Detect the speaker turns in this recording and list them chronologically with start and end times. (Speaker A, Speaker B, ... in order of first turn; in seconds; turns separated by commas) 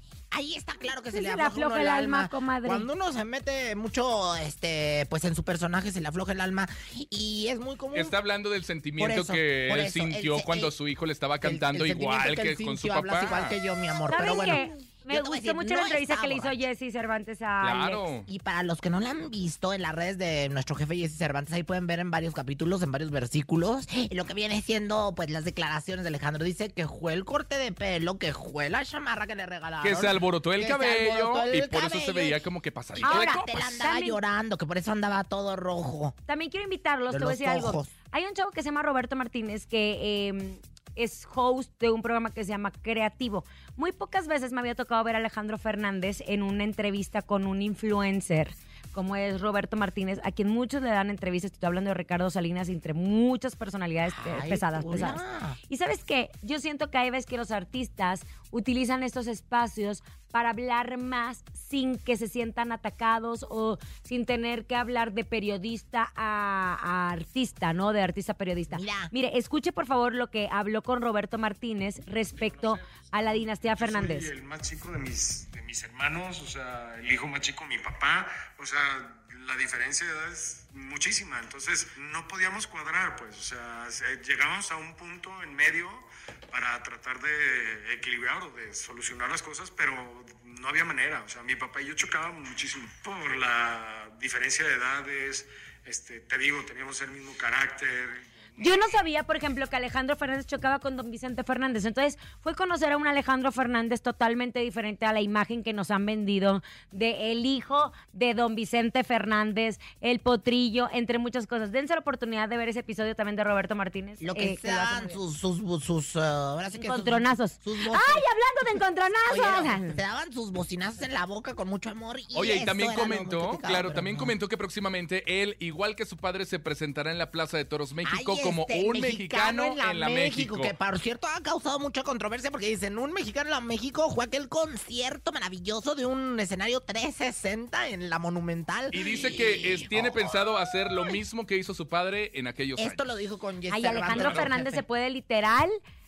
Speaker A: 0.3-8.2, Speaker B: 1.1-2.9, Speaker C: 7.9-13.5, Speaker A: 9.0-10.7, Speaker A: 11.4-16.6, Speaker B: 14.1-18.1, Speaker C: 17.6-18.3, Speaker A: 18.3-32.4, Speaker C: 29.8-33.5, Speaker A: 32.9-36.2, Speaker B: 33.0-34.2, Speaker B: 36.3-74.3, Speaker A: 37.1-37.9, Speaker A: 54.0-55.6, Speaker A: 68.7-69.1, Speaker D: 72.3-98.9, Speaker B: 98.6-115.2, Speaker A: 114.2-118.2, Speaker B: 116.7-120.0, Speaker A: 119.3-124.3, Speaker C: 122.3-130.7, Speaker A: 128.1-140.3, Speaker C: 138.9-143.0, Speaker A: 142.8-144.8, Speaker B: 143.7-145.8, Speaker C: 144.1-144.6